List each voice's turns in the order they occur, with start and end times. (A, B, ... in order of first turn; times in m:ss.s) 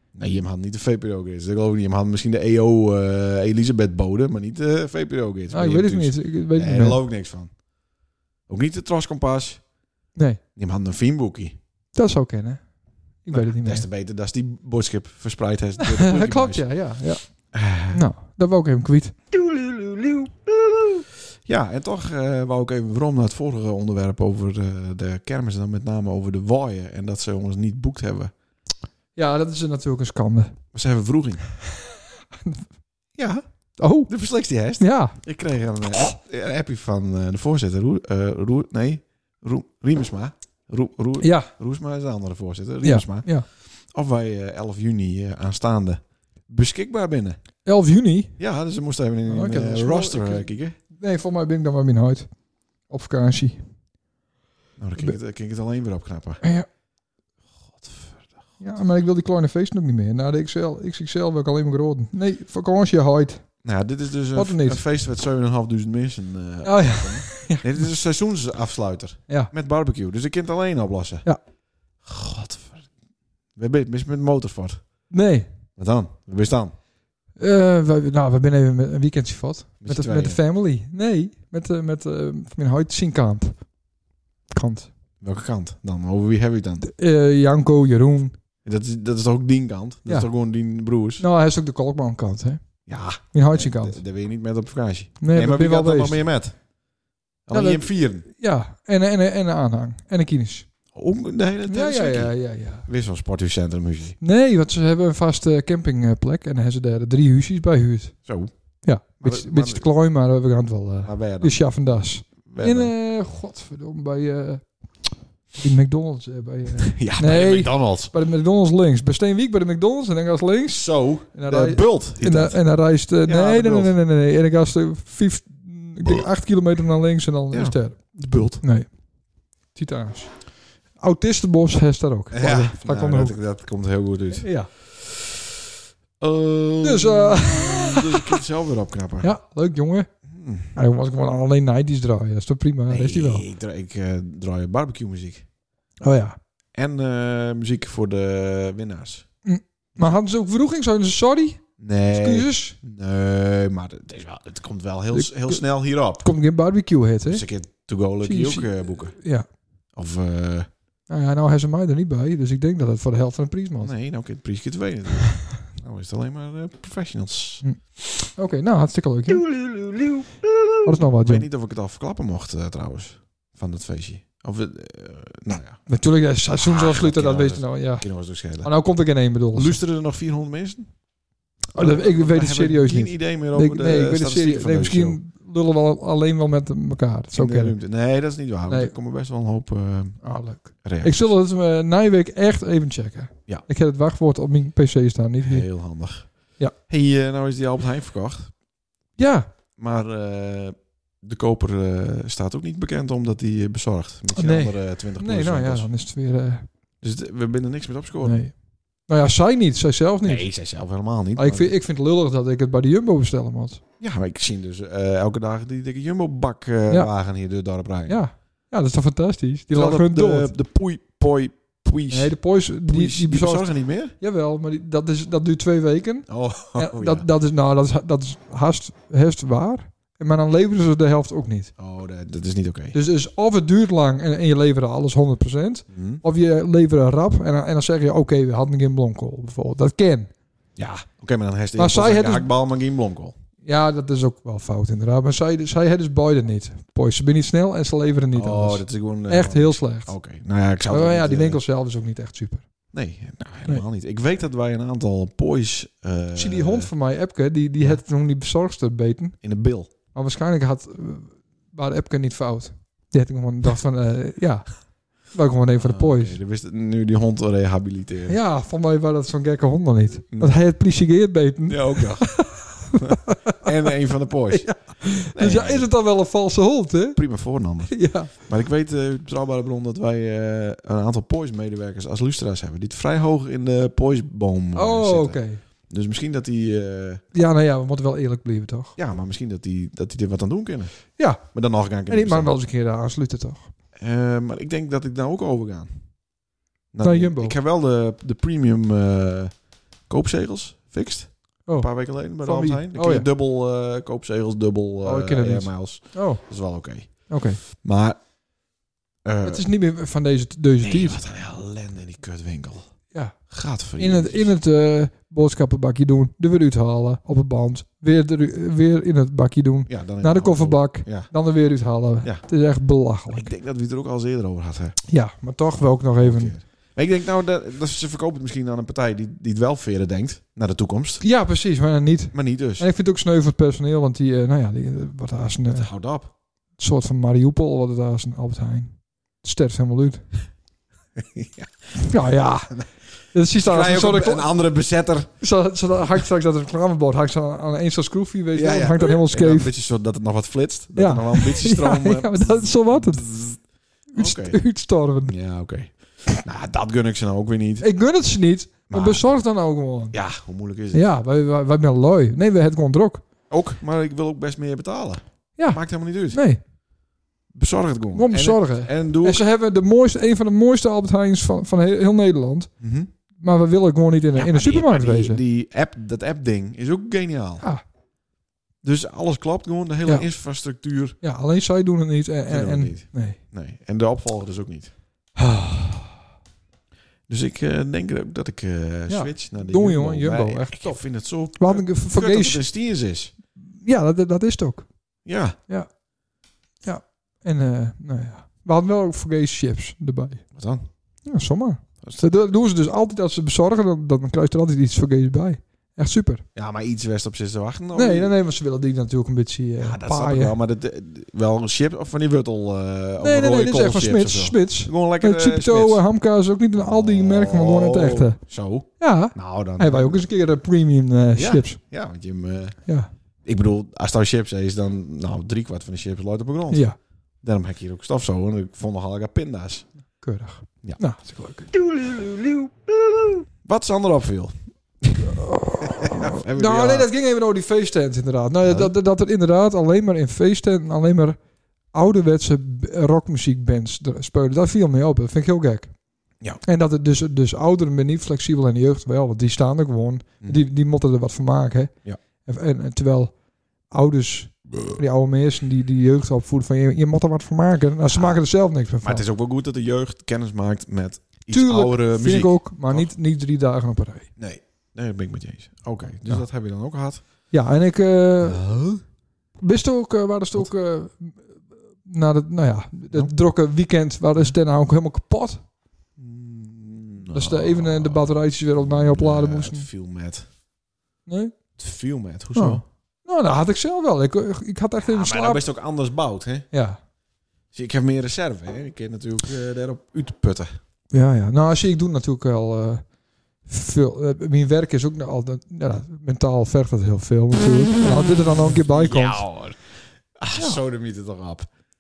0:00.1-0:07.6 A
0:05.5-0:07.0 B
0:08.5-0:09.6 A
0:10.6-0:11.6 A
0:11.9-0:12.7 B
0:13.2-0:13.9 B
0:13.3-0:16.7 A
0:15.8-0:19.2 B
0:17.5-0:18.0 A
0:19.9-0:20.3 B
0:21.5-0:28.3 A
0:29.2-0:30.6 B
0:30.7-0:31.4 A
0:33.2-0:33.4 A
0:33.8-0:34.1 B
0:34.1-0:47.4 A
0:34.8-0:35.2 B
0:41.2-0:41.5 B
0:42.8-0:43.5 B
0:47.6-0:48.4 B
0:48.4-0:50.8 A
0:49.3-0:52.3 B
0:52.9-0:53.6 B
0:54.8-0:56.4 A
0:56.4-0:56.7 B
0:57.7-0:58.3 A
0:58.6-1:03.4 B
1:03.6-1:11.3 A
1:04.4-1:04.8 B
1:06.6-1:07.8 B
1:12.0-1:12.9 A
1:13.6-1:14.8 A
1:15.1-1:15.5 B
1:15.8-1:16.8 A
1:17.4-1:23.7 B
1:19.8-1:20.4 A
1:24.5-1:24.9 B
1:25.2-1:26.9 A
1:26.8-1:28.4 B
1:28.6-1:31.2 A
1:31.2-1:32.6 B
1:32.9-1:36.6 A
1:33.3-1:34.0 B
1:35.2-1:36.2 B
1:37.5-1:38.3 A
1:37.5-1:40.7 B
1:40.9-1:44.2 A
1:41.7-1:42.9 B
1:44.2-1:48.2 B
1:48.3-1:48.5 A
1:48.8-2:08.9 B
1:49.2-1:49.9 A
1:51.0-1:51.6 A
1:52.4-1:52.9 A
1:56.8-1:58.1 A
2:00.7-2:02.6 A
2:03.2-2:04.0 A
2:07.5-2:08.6 A
2:09.7-2:13.4 B
2:12.3-2:15.4 A
2:14.4-2:14.7 B
2:16.2-2:19.3 A
2:16.8-2:18.4 B
2:19.2-2:20.1 B
2:20.3-2:20.7 A
2:20.8-2:23.5 B
2:22.9-2:25.5 A
2:26.0-2:26.4 B
2:26.7-2:29.3 A
2:29.4-2:32.8 B
2:31.8-2:36.3 A
2:35.1-2:37.4 B
2:37.3-2:39.2 A
2:38.2-2:39.5 B
2:40.0-2:40.7 A
2:41.1-2:43.9 B
2:43.8-2:47.6 A
2:47.6-2:49.5 B
2:50.8-2:51.5 B
2:51.2-2:55.8 A
2:55.9-2:59.8 B
2:56.6-2:58.7 A
2:59.5-3:01.0 A
3:01.8-3:05.2 A
3:01.8-3:07.8 B
3:07.3-3:10.2 A
3:08.7-3:08.9 B
3:10.2-3:15.7 B
3:10.8-3:11.3 A
3:15.4-3:18.6 A
3:19.2-3:19.5 B
3:19.8-3:25.9 A
3:24.4-3:26.7 B
3:27.0-3:28.5 A
3:28.2-3:30.5 B
3:30.2-3:31.7 A
3:31.4-3:33.8 B
3:34.0-3:38.2 A
3:38.1-3:40.5 B
3:39.7-3:44.1 A
3:42.1-3:51.7 B
3:46.3-3:47.3 A
3:51.8-3:53.0 A
3:52.9-4:00.3 B
3:55.9-3:56.2 A
4:00.8-4:03.4 A
4:01.8-4:02.5 B
4:03.6-4:10.2 B
4:08.3-4:11.6 A
4:10.9-4:12.6 B
4:12.9-4:16.9 A
4:16.4-4:19.4 B
4:19.4-4:19.9 A
4:20.1-4:26.4 B
4:25.8-4:28.4 A
4:28.3-4:33.7 B
4:30.3-4:30.6 A
4:31.7-4:32.5 A
4:33.0-4:35.9 A
4:34.5-4:37.2 B
4:37.2-4:47.2 A
4:37.9-4:38.3 B
4:44.8-4:45.6 B
4:47.3-4:49.0 B
4:49.0-4:52.5 A
4:51.2-4:51.4 B
4:52.1-4:53.7 B
4:54.0-4:55.9 A
4:56.9-5:08.2 A
4:57.0-4:57.6 B
5:01.7-5:03.3 B
5:05.0-5:06.4 B
5:07.3-5:07.6 B
5:09.2-5:09.6 A
5:09.4-5:11.2 B
5:10.8-5:12.9 A
5:13.5-5:14.5 A
5:14.0-5:23.5 B
5:19.9-5:21.3 A
5:22.2-5:22.5 A
5:23.3-5:25.0 A
5:25.1-5:26.6 B
5:25.8-5:31.2 A
5:31.2-5:35.9 B
5:32.3-5:32.9 A
5:35.7-5:36.3 A
5:36.8-5:40.3 B
5:41.2-5:41.7 A
5:42.0-5:44.5 B
5:43.6-5:45.3 A
5:45.4-5:49.7 B
5:48.5-5:53.6 A
5:51.0-5:53.3 B
5:54.1-5:55.4 B
5:54.2-5:54.6 A
5:55.2-5:57.9 A
5:57.8-6:00.2 B
5:58.9-5:59.2 A
6:00.1-6:01.1 A
6:00.9-6:03.2 B
6:03.5-6:06.4 A
6:05.6-6:06.6 B
6:07.5-6:09.4 A
6:08.2-6:12.7 B
6:12.8-6:13.1 A
6:13.4-6:15.4 B
6:14.4-6:17.6 A
6:18.8-6:21.2 A
6:21.2-6:23.4 B
6:22.5-6:24.9 A
6:25.4-6:26.1 B
6:27.3-6:33.3 A
6:29.1-6:32.6 B
6:33.8-6:34.9 B
6:35.2-6:35.6 A
6:36.8-6:40.4 B
6:40.5-6:40.8 A
6:41.2-6:46.4 B
6:46.6-6:48.3 A
6:48.0-6:50.6 B
6:49.8-6:56.0 A
6:53.2-6:58.4 B
6:56.8-7:00.2 A
6:59.0-7:01.8 B
7:01.4-7:02.8 A
7:03.4-7:06.9 A
7:06.7-7:07.0 B
7:07.4-7:09.9 A
7:10.2-7:11.7 B
7:13.6-7:17.1 A
7:15.3-7:21.4 B
7:18.6-7:18.9 A
7:21.9-7:26.0 B
7:26.6-7:33.4 B
7:33.9-7:39.2 B
7:38.1-7:38.4 A
7:39.0-7:43.1 A
7:41.5-7:44.3 B
7:44.4-7:47.2 A
7:47.5-7:48.6 B
7:48.4-7:49.0 A
7:49.6-7:55.6 B
7:56.2-8:00.5 A
7:57.3-7:59.9 B
8:01.3-8:01.6 B
8:01.8-8:02.8 A
8:02.5-8:05.6 B
8:05.0-8:06.7 A
8:06.7-8:07.0 B
8:07.7-8:10.7 A
8:11.1-8:13.1 B
8:13.6-8:19.5 B
8:18.7-8:21.7 A